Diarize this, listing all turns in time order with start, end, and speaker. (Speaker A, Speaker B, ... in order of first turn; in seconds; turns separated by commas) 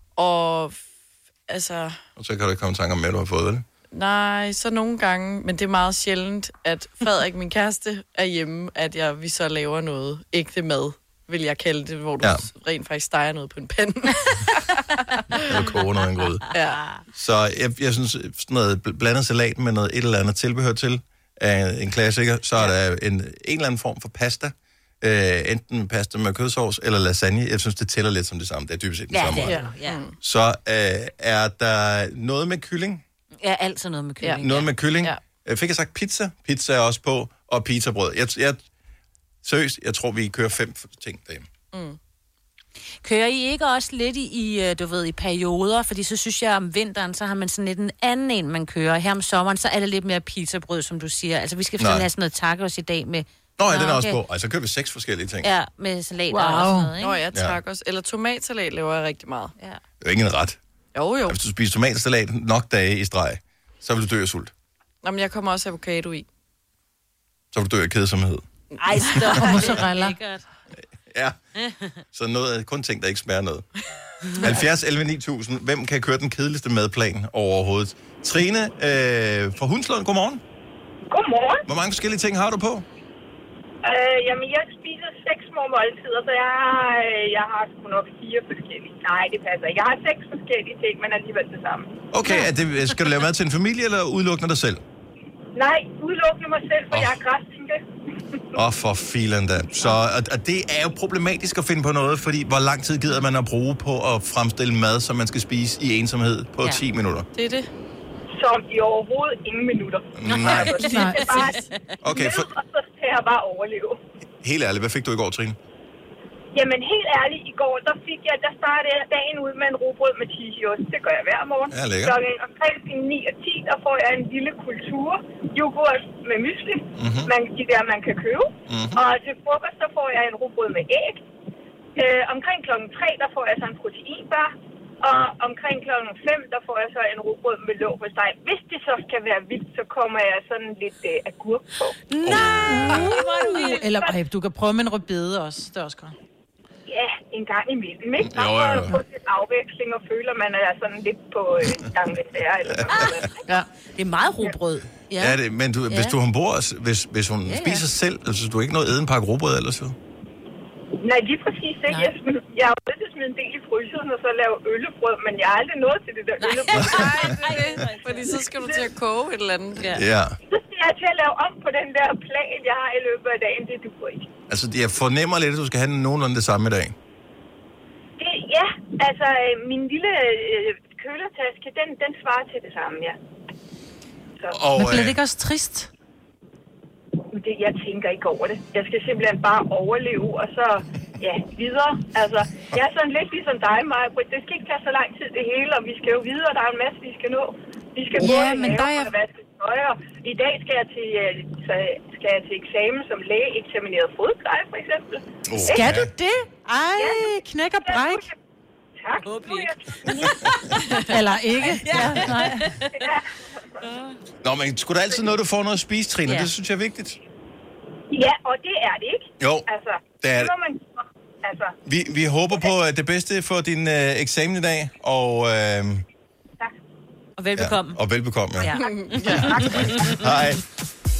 Speaker A: 0.2-0.8, Speaker A: 1.5-2.0, Speaker B: 2.2-3.6, Speaker A: 3.9-15.5, Speaker B: 15.3-16.4, Speaker A: 16.5-16.9, Speaker B: 17.1-29.6, Speaker C: 29.1-30.0, Speaker A: 29.4-30.1, Speaker B: 30.2-33.0, Speaker C: 33.4-34.7, Speaker A: 34.2-34.5, Speaker B: 34.4-38.6, Speaker B: 39.4-41.5, Speaker A: 41.7-42.0, Speaker C: 43.0-54.2, Speaker B: 51.8-52.1, Speaker B: 53.6-55.5, Speaker C: 55.4-57.2, Speaker D: 56.3-56.9, Speaker A: 57.0-59.5, Speaker B: 57.3-57.6, Speaker B: 60.0-60.6, Speaker A: 60.9-61.4, Speaker B: 61.3-64.5, Speaker A: 65.0-66.2, Speaker B: 67.5-68.4, Speaker A: 68.7-69.6, Speaker C: 68.8-70.4, Speaker D: 69.3-70.2, Speaker B: 71.1-71.4, Speaker C: 71.6-71.9, Speaker B: 72.1-73.7, Speaker B: 74.4-80.4, Speaker E: 81.1-81.6, Speaker B: 81.7-82.8, Speaker E: 83.8-91.9, Speaker B: 92.1-94.8, Speaker E: 95.5-97.8, Speaker B: 96.9-97.2, Speaker B: 98.5-107.3, Speaker A: 107.3-107.7, Speaker E: 108.3-114.0, Speaker B: 110.2-110.8, Speaker C: 110.2-111.8, Speaker D: 110.8-111.4, Speaker B: 112.0-112.5, Speaker B: 114.4-115.6, Speaker E: 116.5-131.2, Speaker B: 121.7-122.2, Speaker B: 127.0-127.3, Speaker B: 128.7-129.0, Speaker E: 132.0-141.9, Speaker C: 142.1-143.9, Speaker B: 142.2-143.1, Speaker D: 142.7-146.1, Speaker E: 143.4-144.1, Speaker E: 146.9-153.3, Speaker B: 148.2-149.0, Speaker B: 152.7-153.3, Speaker C: 153.9-155.4, Speaker B: 155.2-159.9, Speaker C: 155.9-156.2, Speaker C: 157.5-157.8, Speaker E: 161.0-167.3, Speaker C: 161.9-162.1, Speaker C: 166.4-168.4, Speaker A: 166.7-169.9, Speaker B: 169.9-170.3, Speaker E: 170.5-174.3, Speaker B: 174.5-176.9, Speaker E: 178.2-183.2, Speaker B: 184.5-185.2, Speaker D: 184.7-185.9, Speaker E: 187.3-205.9, Speaker D: 198.2-199.1, Speaker B: 205.4-206.1, Speaker D: 205.6-208.2, Speaker E: 206.9-208.3, Speaker E: 209.0-210.6, Speaker C: 209.2-211.0, Speaker D: 211.1-212.7, Speaker C: 211.6-213.0, Speaker E: 212.9-213.8, Speaker C: 213.8-214.2, Speaker B: 214.4-217.2, Speaker C: 216.2-216.5, Speaker E: 218.1-221.8, Speaker B: 219.4-219.7, Speaker B: 220.2-220.5, Speaker B: 221.8-226.0, Speaker C: 227.4-228.0, Speaker B: 227.6-228.8, Speaker C: 228.6-230.3, Speaker A: 228.8-230.1, Speaker B: 229.3-230.6